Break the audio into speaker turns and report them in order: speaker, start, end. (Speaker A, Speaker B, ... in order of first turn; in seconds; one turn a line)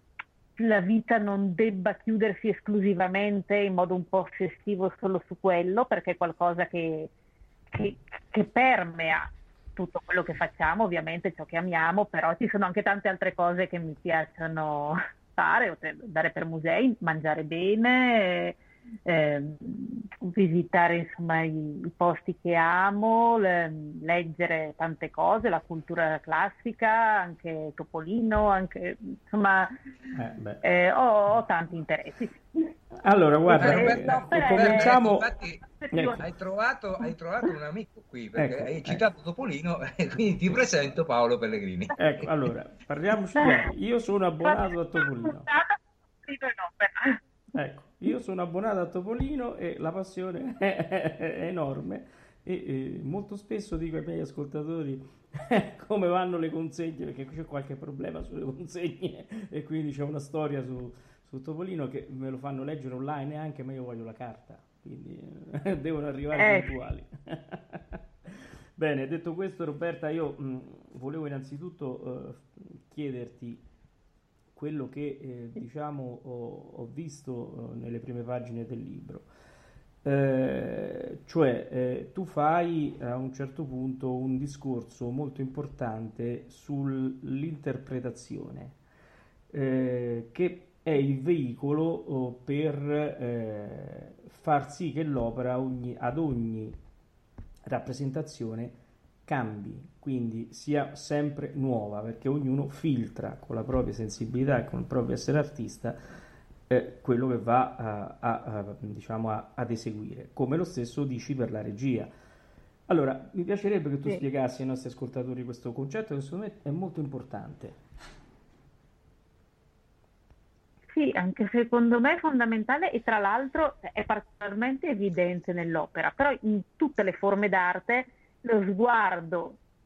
Speaker A: 0.6-7.1
Speaker A: 7.7-29.7
Speaker B: 30.1-30.6
Speaker A: 30.6-32.7
Speaker B: 33.0-35.3
Speaker A: 33.5-36.2
Speaker C: 33.5-35.6
Speaker B: 35.9-36.2
Speaker C: 36.2-42.0
Speaker B: 38.4-39.0
Speaker B: 42.0-45.5
Speaker A: 43.4-43.7
Speaker A: 44.4-47.2
Speaker B: 47.5-73.6
Speaker A: 66.3-66.7
Speaker B: 74.5-79.3
Speaker B: 80.0-88.8
Speaker B: 89.5-96.8
Speaker B: 97.7-106.0
Speaker B: 106.7-112.1
Speaker B: 112.9-117.8
Speaker A: 120.9-129.6